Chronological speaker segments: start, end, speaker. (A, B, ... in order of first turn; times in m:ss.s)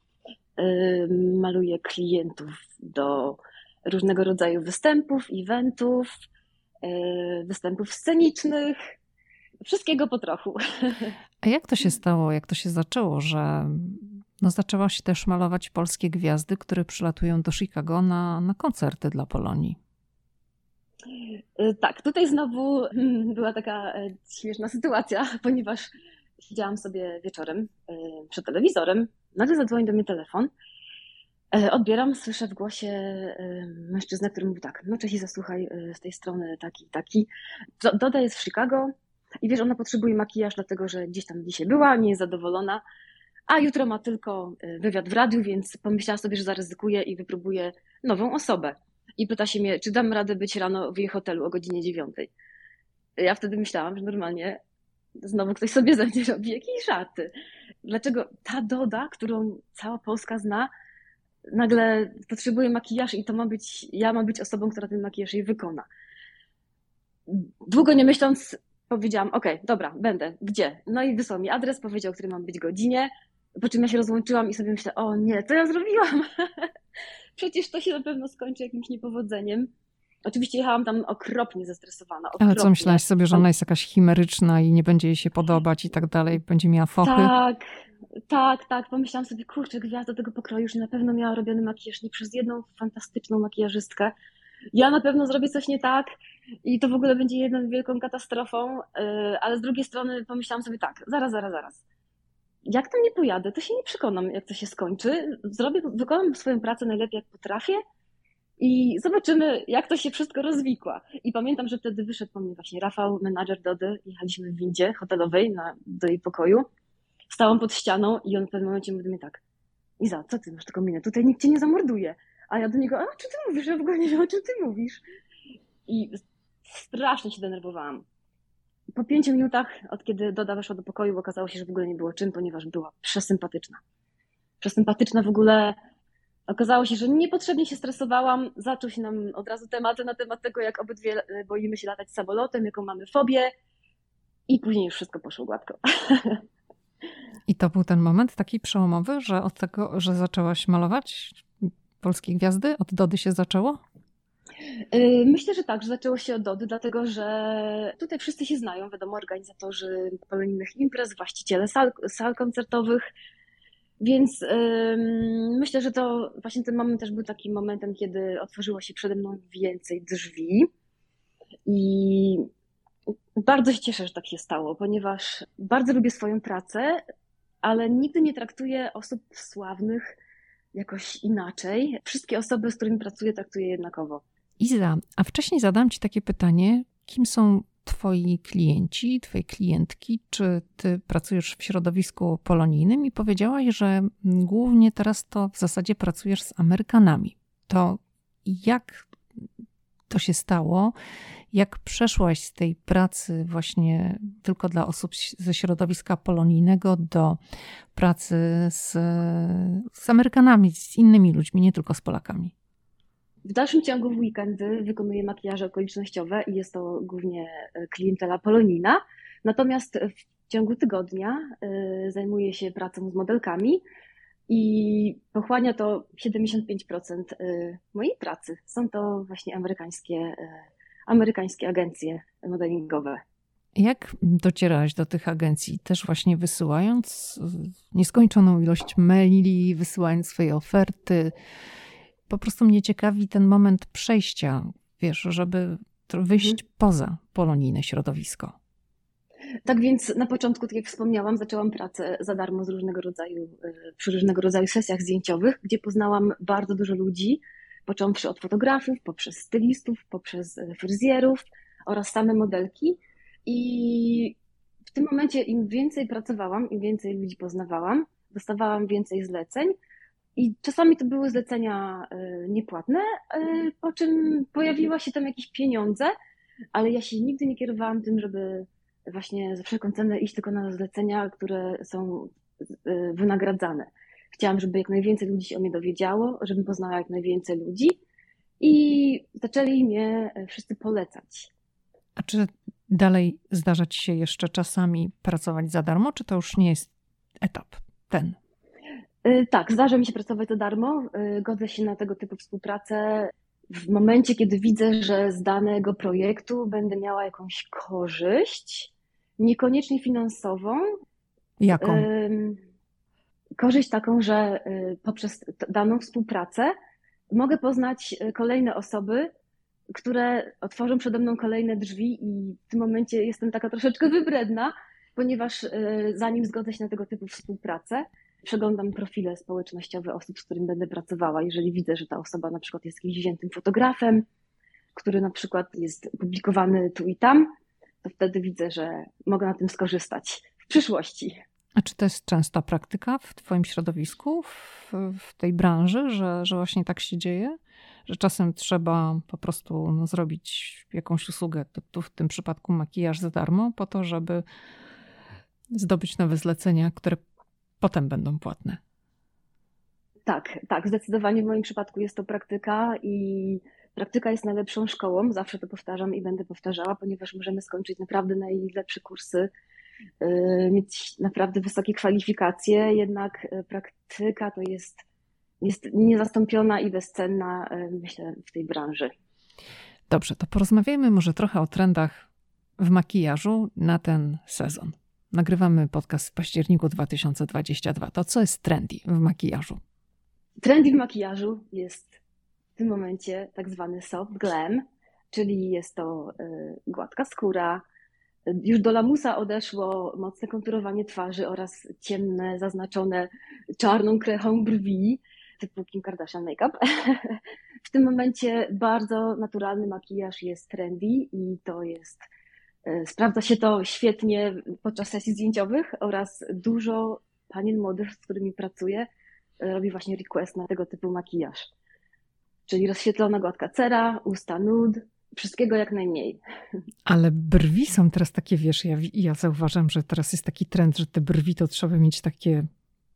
0:00.6-0:06.1 A
0:06.8-0:08.8 A
0:09.6-0:11.1 A
0:11.4-0:19.8 B
0:21.1-0:30.5 A
0:31.5-0:37.3 A
0:37.8-0:42.8 A
0:43.5-0:52.3 A
0:53.2-0:54.6 A
0:55.2-0:57.3 A
0:57.8-1:00.7 A
1:01.5-1:05.9 A
1:07.3-1:16.7 A
1:17.4-1:19.7 A
1:20.2-1:23.5 A
1:22.4-1:27.3 B
1:27.0-1:27.6 A
1:28.3-1:34.1 A
1:34.7-1:36.1 A
1:36.6-1:41.8 A
1:42.7-1:47.8 A
1:48.6-1:56.7 A
1:57.3-1:59.4 A
2:00.0-2:05.0 A
2:05.9-2:08.0 A
2:09.0-2:13.8 A
2:14.6-2:15.8 A
2:16.5-2:23.5 A
2:24.5-2:26.4 A
2:27.5-2:33.8 B
2:34.9-2:43.0 A
2:44.0-2:50.7 A
2:51.7-2:52.5 A
2:53.4-2:57.0 A
2:57.6-3:00.1 A
3:00.7-3:04.2 A
3:04.6-3:19.4 B
3:20.1-3:21.0 B
3:21.5-3:27.4 B
3:28.0-3:32.5 B
3:33.4-3:43.8 A
3:44.5-3:53.2 A
3:53.8-4:01.3 B
4:02.3-4:08.6 B
4:09.6-4:24.4 A
4:24.9-4:29.8 A
4:30.4-4:36.1 A
4:36.7-4:48.0 A
4:48.6-4:51.5 A
4:52.2-4:56.9 B
4:57.4-4:58.4 B
4:59.2-5:10.8 A
5:11.6-5:12.1 B
5:11.8-5:12.6 A
5:13.6-5:16.7 A
5:17.3-5:19.3 A
5:19.9-5:34.3 A
5:34.9-5:37.5 A
5:38.0-5:41.4 A
5:41.8-5:54.4 B
5:55.7-5:57.2 B
5:57.8-5:58.8 B
6:00.3-6:09.5 A
6:10.2-6:15.0 A
6:15.6-6:19.1 A
6:20.1-6:22.3 B
6:22.8-6:29.8 B
6:30.6-6:32.2 A
6:32.8-6:37.8 A
6:38.5-6:52.2 A
6:52.8-6:59.1 A
6:59.6-7:01.7 A
7:02.7-7:06.4 A
7:07.1-7:12.7 B